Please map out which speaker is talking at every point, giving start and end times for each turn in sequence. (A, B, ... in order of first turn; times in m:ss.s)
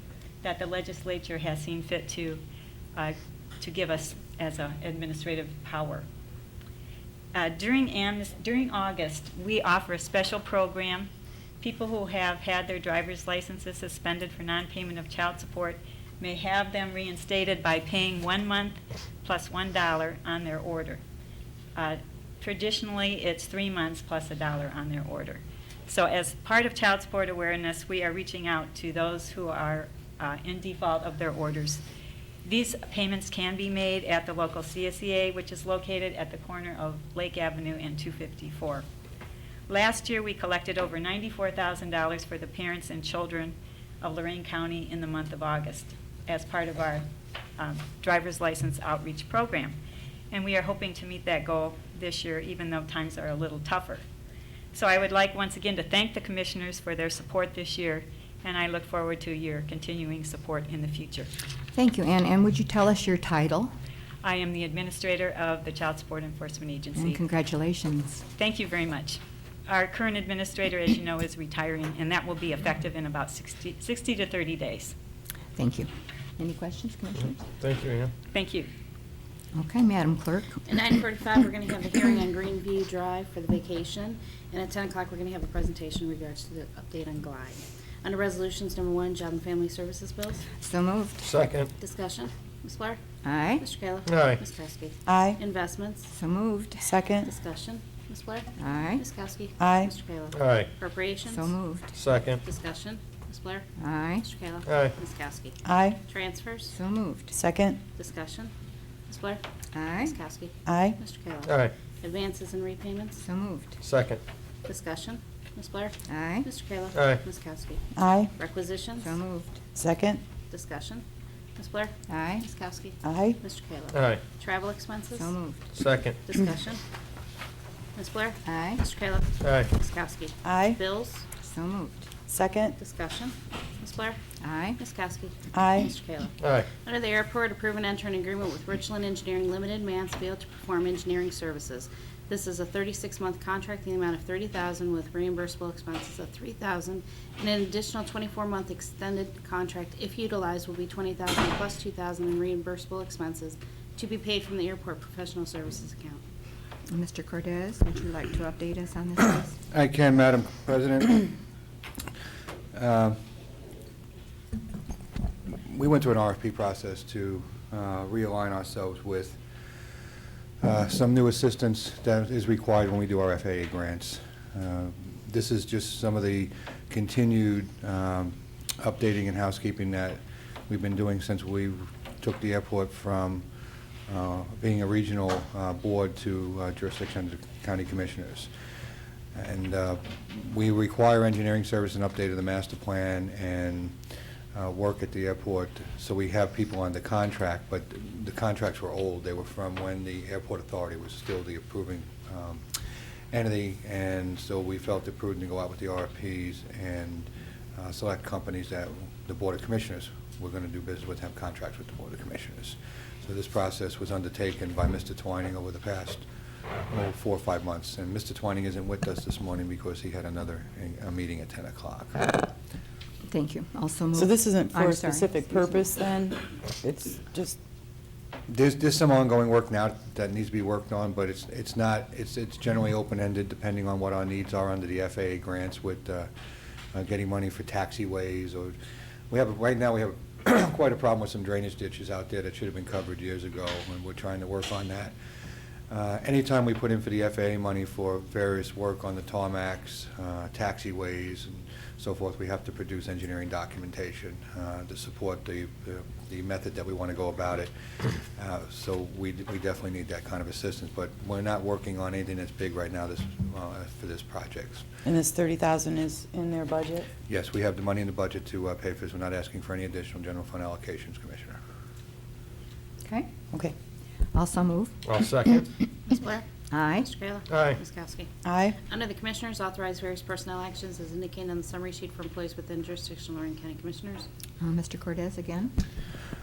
0:00.4-0:02.4 A
0:03.0-0:06.1 A
0:07.3-0:21.0 A
0:21.8-0:31.8 A
0:32.4-0:38.8 A
0:39.7-0:47.0 A
0:47.6-0:49.8 A
0:50.3-0:54.0 A
0:54.7-1:01.3 A
1:01.7-1:03.7 B
1:04.2-1:07.2 A
1:07.0-1:08.2 B
1:08.4-1:14.9 A
1:15.6-1:17.4 B
1:17.6-1:18.1 C
1:18.3-1:18.7 A
1:19.5-1:20.7 B
1:20.7-1:30.5 D
1:30.6-1:31.3 B
1:31.2-1:31.7 C
1:31.8-1:33.0 D
1:33.2-1:33.6 B
1:33.6-1:36.1 D
1:34.1-1:34.4 C
1:35.1-1:35.4 E
1:36.1-1:36.9 B
1:36.8-1:37.3 E
1:37.2-1:41.5 D
1:38.6-1:39.0 B
1:39.6-1:40.0 E
1:40.3-1:40.7 C
1:41.2-1:42.0 B
1:41.9-1:42.4 C
1:42.4-1:43.7 D
1:43.8-1:44.3 B
1:44.2-1:45.6 D
1:44.6-1:45.0 C
1:45.6-1:46.0 E
1:46.1-1:46.7 D
1:46.7-1:47.3 B
1:47.3-1:47.8 E
1:48.0-1:48.5 D
1:49.1-1:49.4 D
1:49.7-1:50.2 B
1:50.0-1:53.2 D
1:50.7-1:51.0 E
1:51.4-1:51.7 C
1:53.2-1:53.8 B
1:53.8-1:54.2 C
1:54.7-1:57.8 D
1:56.1-1:56.5 B
1:56.9-1:57.2 C
1:58.0-1:58.3 E
1:58.4-1:59.1 D
1:59.0-1:59.6 B
1:59.8-2:00.2 E
2:00.5-2:01.0 D
2:01.6-2:05.3 D
2:02.1-2:02.5 B
2:03.0-2:03.4 E
2:03.9-2:04.2 C
2:05.2-2:05.6 B
2:05.8-2:06.2 C
2:06.2-2:06.8 D
2:08.0-2:11.2 D
2:08.4-2:08.8 B
2:09.4-2:09.7 C
2:10.4-2:10.8 E
2:11.4-2:12.1 B
2:12.3-2:12.8 E
2:12.8-2:14.2 D
2:14.4-2:14.8 B
2:14.8-2:36.2 D
2:15.5-2:16.0 E
2:16.4-2:16.7 C
2:36.9-2:39.6 B
2:39.7-2:41.4 F
2:42.7-2:43.2 F
2:45.7-2:49.4 F
2:50.6-3:03.5 F
3:04.1-3:08.5 F
3:09.4-3:14.0 F
3:14.5-3:22.6 F
3:23.3-3:36.3 F
3:36.9-3:42.3 F
3:43.3-3:45.4 B
3:44.2-3:47.6 E
3:48.5-3:56.3 F
3:56.9-3:58.8 F
3:59.3-4:05.1 F
4:05.9-4:24.9 F
4:25.0-4:27.1 E
4:27.3-4:31.6 F
4:33.0-4:33.3 B
4:34.3-4:35.0 B
4:35.0-4:35.7 C
4:36.1-4:36.5 D
4:36.7-4:37.1 B
4:37.0-4:38.3 D
4:37.5-4:37.8 C
4:38.4-4:38.8 E
4:38.9-4:44.3 D
4:44.6-4:45.8 B